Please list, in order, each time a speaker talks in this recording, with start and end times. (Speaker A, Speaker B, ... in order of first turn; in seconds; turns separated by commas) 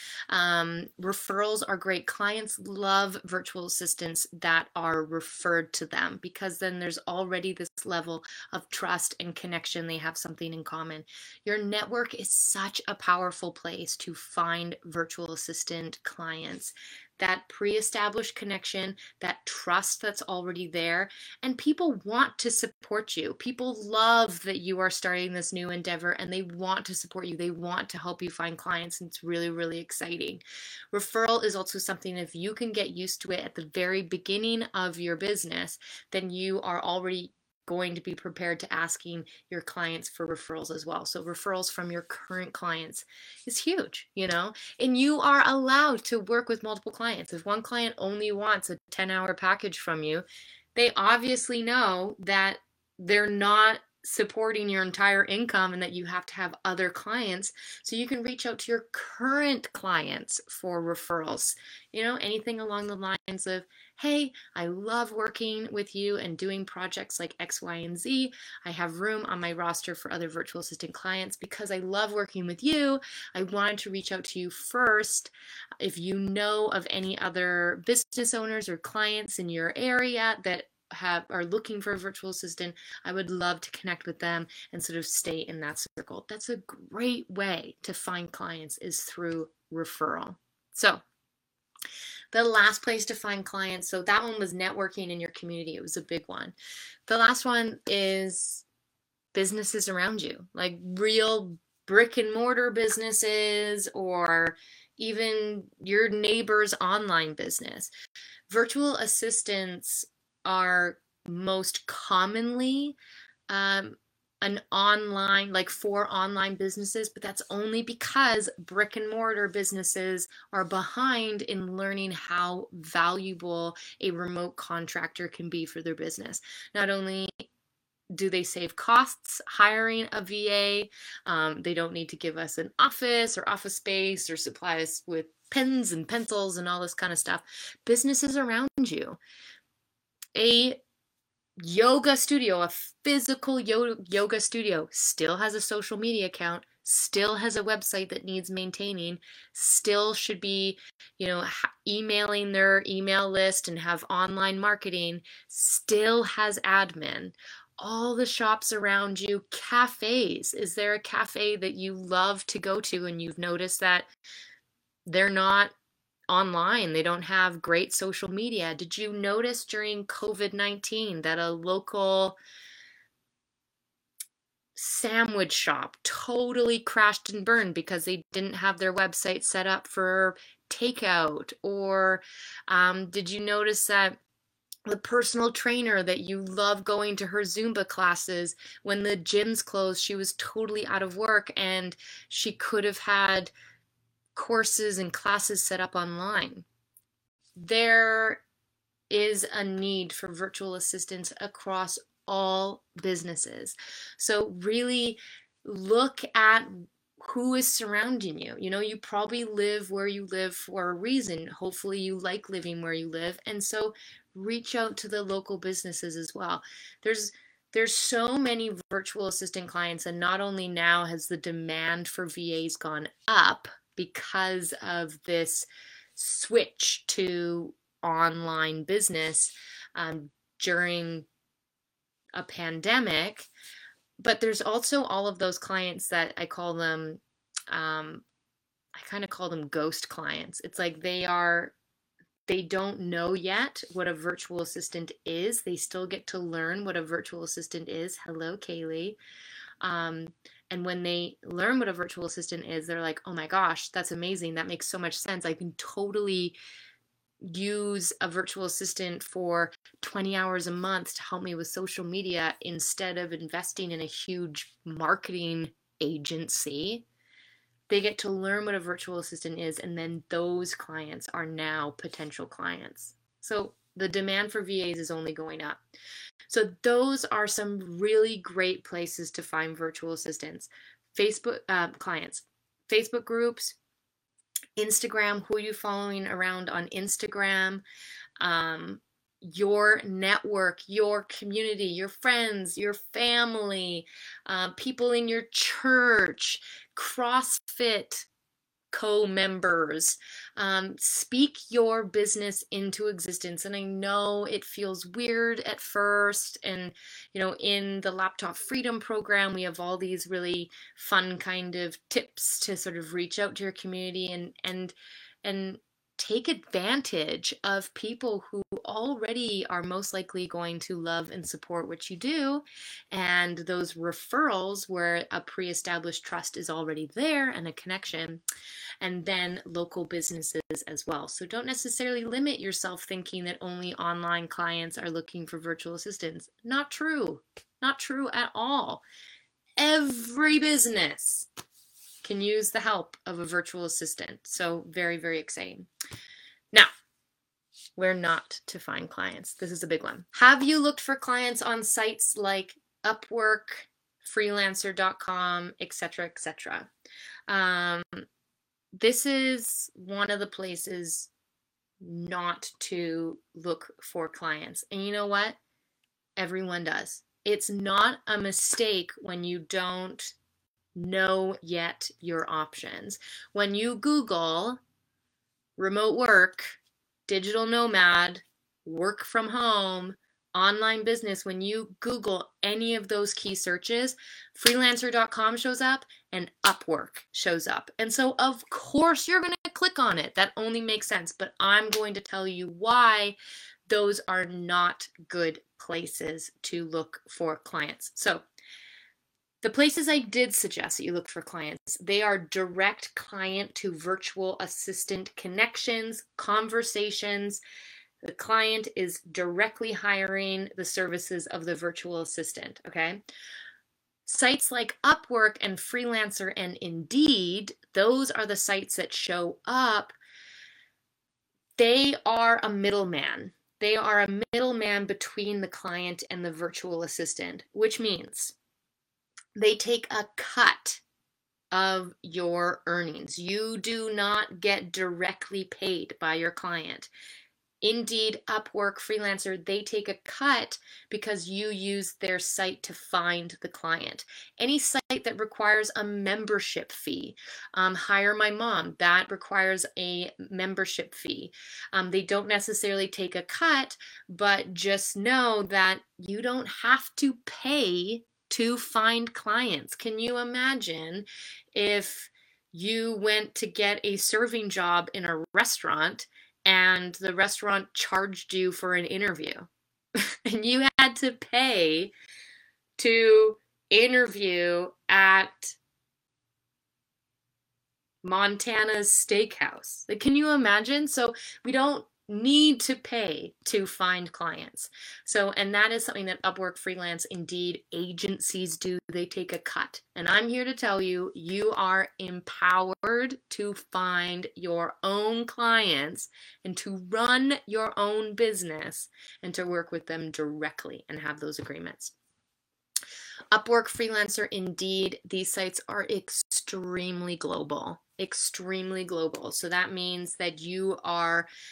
Speaker A: 0.3-91.0, Speaker A: 92.3-96.5, Speaker A: 97.1-98.7, Speaker A: 99.3-107.9, Speaker A: 108.5-113.0, Speaker A: 113.5-127.5, Speaker A: 128.1-139.2, Speaker A: 140.3-140.8, Speaker A: 141.6-164.1, Speaker A: 165.1-165.7, Speaker A: 166.3-172.4, Speaker A: 174.8-184.2, Speaker A: 184.9-193.5, Speaker A: 194.3-196.7, Speaker A: 197.6-198.4, Speaker A: 199.1-231.3, Speaker A: 232.3-233.5, Speaker A: 234.2-238.2, Speaker A: 238.9-241.7, Speaker A: 242.5-249.2, Speaker A: 249.8-256.6, Speaker A: 257.4-267.1, Speaker A: 267.9-275.8, Speaker A: 276.5-283.8, Speaker A: 284.8-287.8, Speaker A: 288.4-298.3, Speaker A: 298.9-328.4, Speaker A: 329.0-339.0, Speaker A: 339.8-341.5, Speaker A: 342.2-345.9, Speaker A: 348.0-356.9, Speaker A: 357.5-358.3, Speaker A: 358.9-361.3, Speaker A: 362.0-365.6, Speaker A: 366.4-370.4, Speaker A: 370.9-374.8, Speaker A: 375.8-393.4, Speaker A: 393.9-398.4, Speaker A: 399.6-407.6, Speaker A: 408.2-413.2, Speaker A: 414.3-420.2, Speaker A: 421.8-428.5, Speaker A: 429.6-431.0, Speaker A: 431.7-437.1, Speaker A: 437.8-469.7, Speaker A: 470.2-472.1, Speaker A: 473.0-475.8, Speaker A: 478.2-502.1, Speaker A: 503.5-511.5